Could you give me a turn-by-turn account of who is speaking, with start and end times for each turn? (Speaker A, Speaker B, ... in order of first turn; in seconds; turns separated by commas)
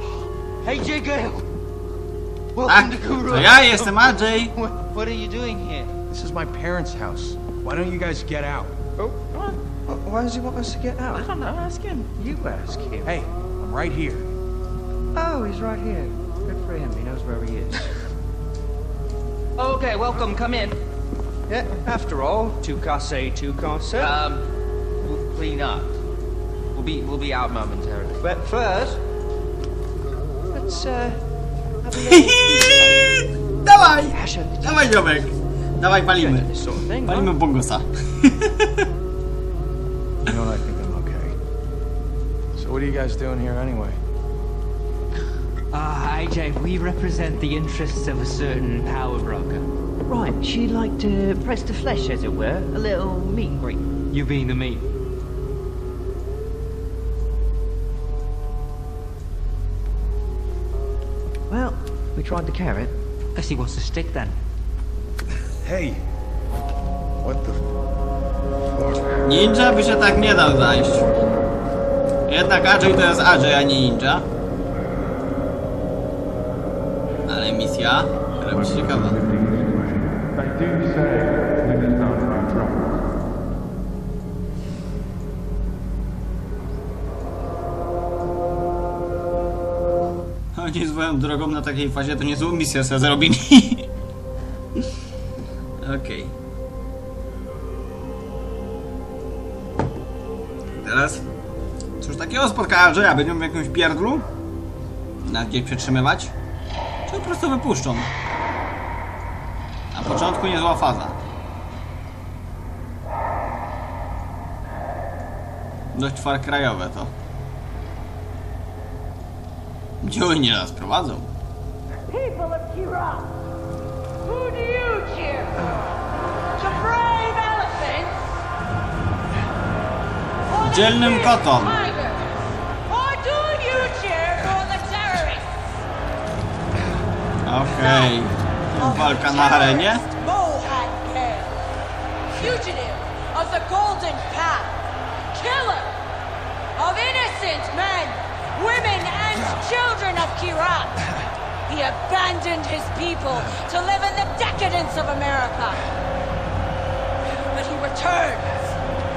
Speaker A: 0.6-1.4, Speaker A: 2.5-5.9, Speaker B: 2.6-4.5, Speaker C: 6.1-8.8, Speaker D: 9.0-11.2, Speaker A: 11.1-12.1, Speaker D: 12.2-13.1, Speaker C: 13.0-14.3, Speaker D: 15.1-17.6, Speaker E: 16.9-17.6, Speaker A: 19.6-20.8, Speaker D: 21.5-24.2, Speaker A: 24.0-24.4, Speaker A: 25.0-25.9, Speaker A: 26.7-28.2, Speaker D: 28.2-29.0, Speaker D: 30.5-31.2, Speaker D: 31.8-33.2, Speaker B: 32.0-32.9, Speaker B: 33.6-36.5, Speaker D: 34.1-34.8, Speaker E: 36.2-37.3, Speaker D: 36.3-37.2, Speaker B: 37.0-38.9, Speaker C: 40.2-41.4, Speaker C: 42.5-44.0, Speaker F: 45.7-49.7, Speaker E: 50.1-53.9, Speaker F: 54.1-54.9, Speaker E: 61.5-62.9, Speaker F: 63.3-64.4, Speaker C: 65.6-66.0, Speaker C: 67.2-67.7, Speaker C: 68.7-69.1, Speaker B: 69.2-71.1, Speaker B: 72.3-74.3, Speaker B: 77.2-79.2, Speaker C: 78.5-83.0, Speaker B: 90.5-93.9, Speaker B: 95.8-96.3, Speaker B: 100.8-101.2, Speaker B: 102.0-104.3, Speaker B: 105.2-106.3, Speaker B: 107.1-108.1, Speaker B: 109.9-111.2, Speaker B: 115.9-117.1, Speaker B: 120.0-121.3, Speaker G: 122.1-123.3, Speaker G: 124.2-125.8, Speaker G: 126.6-128.3, Speaker G: 130.5-135.5, Speaker B: 130.6-131.7, Speaker B: 137.4-140.0, Speaker G: 137.7-138.1, Speaker G: 138.8-141.5, Speaker G: 142.3-144.8, Speaker G: 145.3-145.9, Speaker G: 146.8-151.0, Speaker G: 151.7-155.8, Speaker G: 157.2-158.7